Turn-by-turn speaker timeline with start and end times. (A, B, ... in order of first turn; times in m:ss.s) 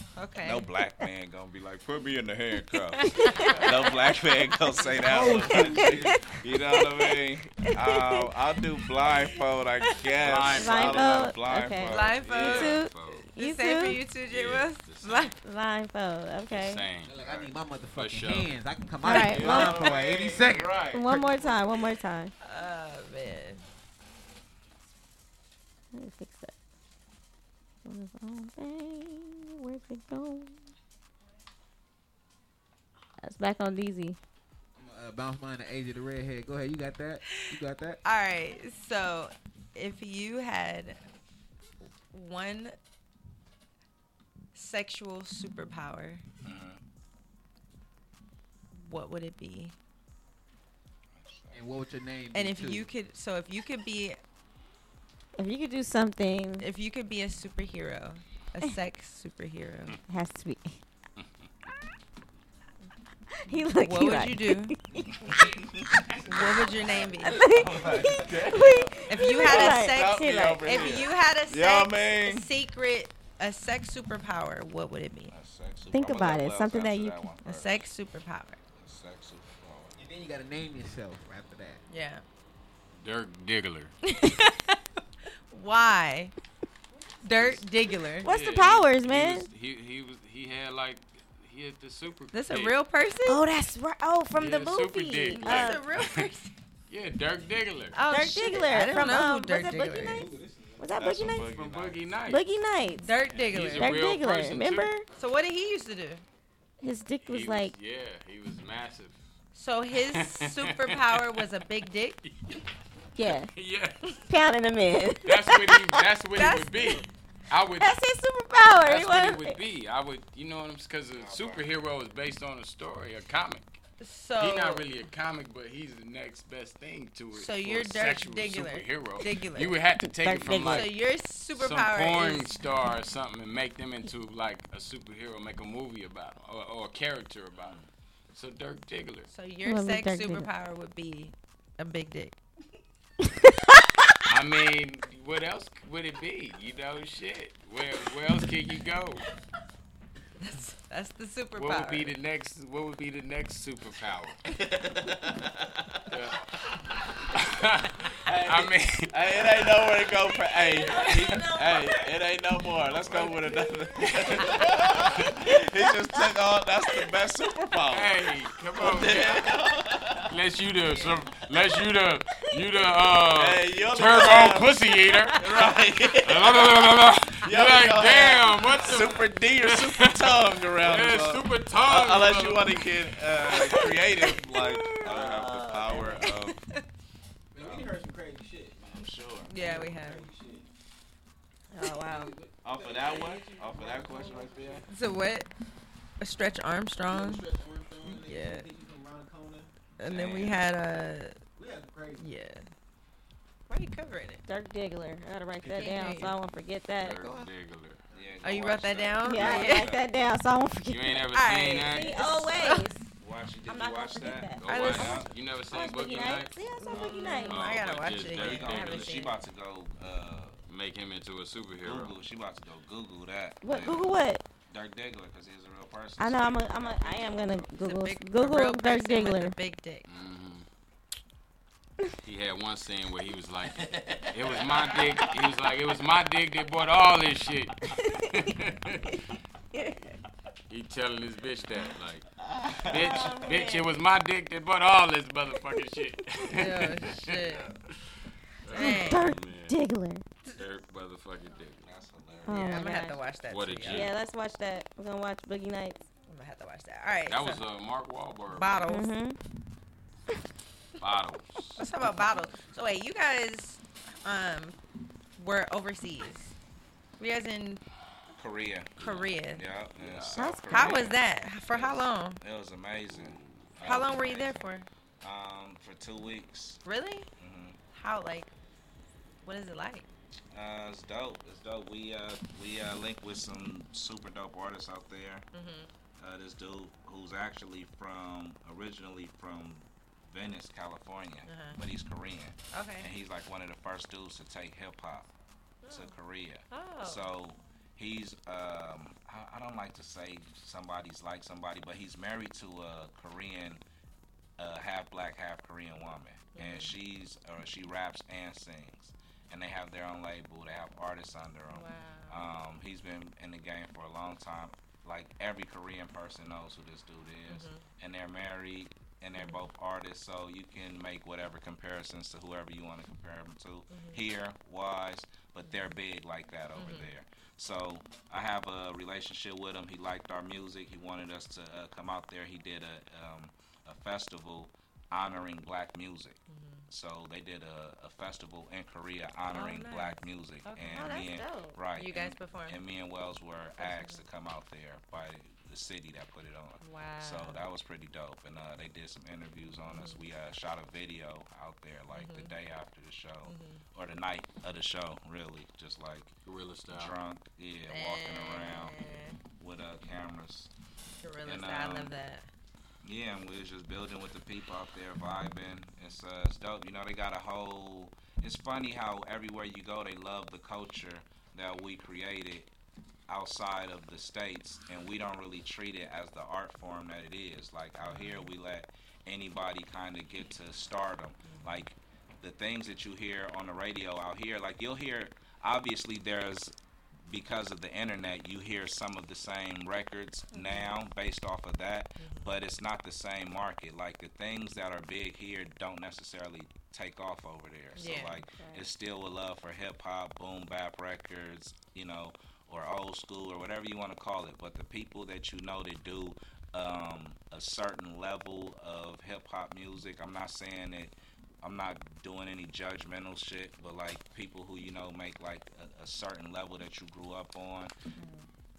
0:00.2-0:00.7 A
0:00.4-0:12.5 B
0:03.0-0:03.7 A
0:03.0-0:03.7 C
0:03.4-0:03.8 D
0:04.9-0:06.2 E
0:05.3-0:08.3 C
0:10.2-0:11.3 D
0:10.5-0:14.0 C
0:11.8-0:15.4 A
0:12.2-0:13.3 D
0:14.2-0:15.4 D
0:15.4-0:16.8 C
0:16.5-0:17.2 D
0:17.0-0:21.3 E
0:17.2-0:17.6 B
0:17.9-0:18.6 D
0:19.0-0:19.7 C
0:19.0-0:19.8 A
0:19.1-0:19.9 D
0:19.4-0:21.1 B
0:20.9-0:22.3 C
0:22.4-0:23.6 A
0:25.9-0:26.5 C
0:27.8-0:30.7 C
0:33.2-0:34.2 C
0:34.8-0:38.0 E
0:37.3-0:41.0 A
0:42.1-0:42.8 A
0:44.5-0:46.2 A
0:46.4-0:46.8 B
0:48.7-0:49.7 A
0:51.1-0:51.7 B
0:51.5-0:52.9 E
0:52.3-0:54.2 A
0:55.4-0:56.7 C
0:56.6-1:00.0 A
1:00.1-1:00.8 C
1:03.4-1:05.3 C
1:03.7-1:04.8 A
1:05.1-1:06.7 B
1:06.2-1:07.4 A
1:07.2-1:11.1 C
1:07.4-1:12.5 B
1:09.0-1:15.3 A
1:15.3-1:17.9 B
1:15.9-1:17.2 C
1:17.4-1:18.6 A
1:18.7-1:20.0 B
1:20.0-1:21.8 E
1:21.9-1:22.2 A
1:23.0-1:23.9 D
1:24.0-1:26.3 A
1:27.2-1:28.3 A
1:28.2-1:29.5 C
1:28.2-1:32.8 D
1:32.3-1:33.4 A
1:33.2-1:35.8 C
1:34.4-1:36.3 D
1:35.3-1:36.5 A
1:36.9-1:38.0 D
1:37.9-1:40.3 A
1:38.1-1:41.5 C
1:40.0-1:41.0 E
1:40.9-1:42.2 B
1:41.3-1:42.5 D
1:42.2-1:43.1 C
1:43.0-1:43.9 A
1:43.4-1:44.9 D
1:43.7-1:45.0 C
1:45.1-1:46.2 A
1:46.8-1:47.7 C
1:47.2-1:49.2 D
1:49.5-1:52.2 A
1:50.1-1:51.4 D
1:52.2-1:52.6 D
1:53.1-1:53.5 C
1:53.2-1:54.2 D
1:54.2-1:56.0 C
1:55.2-1:58.0 D
1:56.4-1:57.1 A
1:57.8-1:59.6 C
1:58.8-2:03.8 D
2:01.2-2:01.7 B
2:04.0-2:04.9 A
2:04.4-2:11.0 D
2:07.3-2:09.8 A
2:10.1-2:10.9 C
2:10.5-2:12.5 A
2:11.5-2:17.8 D
2:17.6-2:17.9 B
2:18.3-2:19.3 D
2:19.3-2:22.4 A
2:19.6-2:20.5 C
2:23.2-2:23.5 C
2:24.3-2:29.2 D
2:30.4-2:32.1 A
2:31.6-2:34.4 D
2:34.5-2:36.2 B
2:36.1-2:36.4 D
2:37.3-2:39.4 D
2:38.2-2:50.3 B
2:40.8-2:41.4 D
2:44.0-2:44.6 D
2:47.9-2:49.5 D
2:50.3-2:55.4 D
2:51.0-2:51.3 B
2:53.3-2:54.7 B
2:55.3-3:06.6 B
2:56.2-3:03.0 D
3:03.5-3:05.0 A
3:04.9-3:06.3 C
3:06.0-3:06.8 A
3:07.5-3:10.7 E
3:07.6-3:07.9 B
3:08.8-3:09.9 B
3:09.5-3:10.3 A
3:11.7-3:12.3 C
3:11.9-3:14.9 E
3:12.6-3:14.9 B
3:14.9-3:15.5 A
3:16.2-3:17.4 A
3:17.1-3:19.7 E
3:18.0-3:18.7 A
3:20.0-3:20.6 B
3:20.0-3:21.4 A
3:21.6-3:22.3 E
3:22.2-3:22.7 A
3:23.7-3:24.4 A
3:24.4-3:27.2 C
3:25.7-3:26.4 A
3:27.0-3:28.0 D
3:28.1-3:28.4 E
3:28.1-3:30.0 B
3:28.4-3:29.9 A
3:29.2-3:31.3 C
3:30.9-3:32.6 D
3:31.3-3:32.9 A
3:31.9-3:33.1 C
3:33.2-3:35.3 B
3:33.6-3:37.6 C
3:34.6-3:36.6 D
3:34.6-3:35.2 A
3:36.8-3:39.4 A
3:36.9-3:37.4 B
3:37.4-3:39.3 D
3:38.0-3:40.6 B
3:40.6-3:42.2 D
3:41.8-3:47.7 B
3:43.6-3:44.4 C
3:46.2-3:49.6 C
3:47.8-3:50.0 A
3:50.0-3:50.7 D
3:52.2-3:59.8 D
3:53.8-3:55.4 B
3:59.7-4:00.1 C
4:00.7-4:02.3 D
4:02.5-4:03.4 B
4:02.8-4:07.6 D
4:02.9-4:03.9 C
4:06.5-4:07.7 A
4:07.4-4:07.7 B
4:08.6-4:09.8 D
4:08.7-4:10.2 C
4:08.7-4:09.3 A
4:10.5-4:11.9 D
4:11.8-4:12.9 B
4:12.4-4:13.2 C
4:12.5-4:14.1 A
4:13.5-4:14.1 D
4:13.8-4:16.0 C
4:16.3-4:17.6 A
4:17.2-4:18.9 D
4:18.5-4:19.1 A
4:18.9-4:19.4 C
4:21.0-4:21.8 D
4:21.8-4:24.8 A
4:25.4-4:26.5 A
4:27.2-4:27.8 A
4:28.3-4:34.7 B
4:29.0-4:29.6 A
4:29.0-4:29.3 D
4:30.0-4:30.5 D
4:30.4-4:31.1 C
4:30.7-4:32.4 A
4:33.1-4:33.7 D
4:33.8-4:34.9 A
4:35.2-4:36.8 B
4:36.8-4:37.3 A
4:37.4-4:37.8 B
4:37.9-4:38.5 A
4:39.4-4:40.1 A
4:40.5-4:45.4 B
4:45.5-4:45.9 A
4:46.2-4:55.3 B
4:51.4-4:51.8 A
4:52.7-4:53.1 A
4:55.8-4:56.2 A
4:55.9-5:03.8 B
4:56.7-4:57.3 A
5:04.6-5:56.4 B
5:06.5-5:06.9 A
5:11.7-5:12.4 A
5:17.5-5:17.8 A
5:19.3-5:19.6 A
5:23.9-5:24.2 A
5:25.6-5:25.9 A
5:26.8-5:27.1 A
5:36.5-5:36.9 A
5:39.5-5:41.3 A
5:40.8-5:41.8 C
5:41.9-5:42.8 A
5:43.8-5:44.2 A
5:46.8-5:47.6 A
5:49.9-5:50.2 A
5:52.1-5:52.5 A
5:53.4-5:53.8 A
5:56.4-5:57.2 D
5:56.9-6:00.7 B
5:57.9-5:59.4 A
6:01.2-6:02.5 A
6:01.4-6:02.1 B
6:03.0-6:12.7 B
6:13.3-6:26.7 B
6:18.0-6:18.5 A
6:21.4-6:21.8 A
6:27.3-6:57.9 B
6:30.5-6:30.9 A
6:32.2-6:32.5 A
6:37.9-6:38.4 A
6:38.5-6:38.9 C
6:58.2-6:58.4 C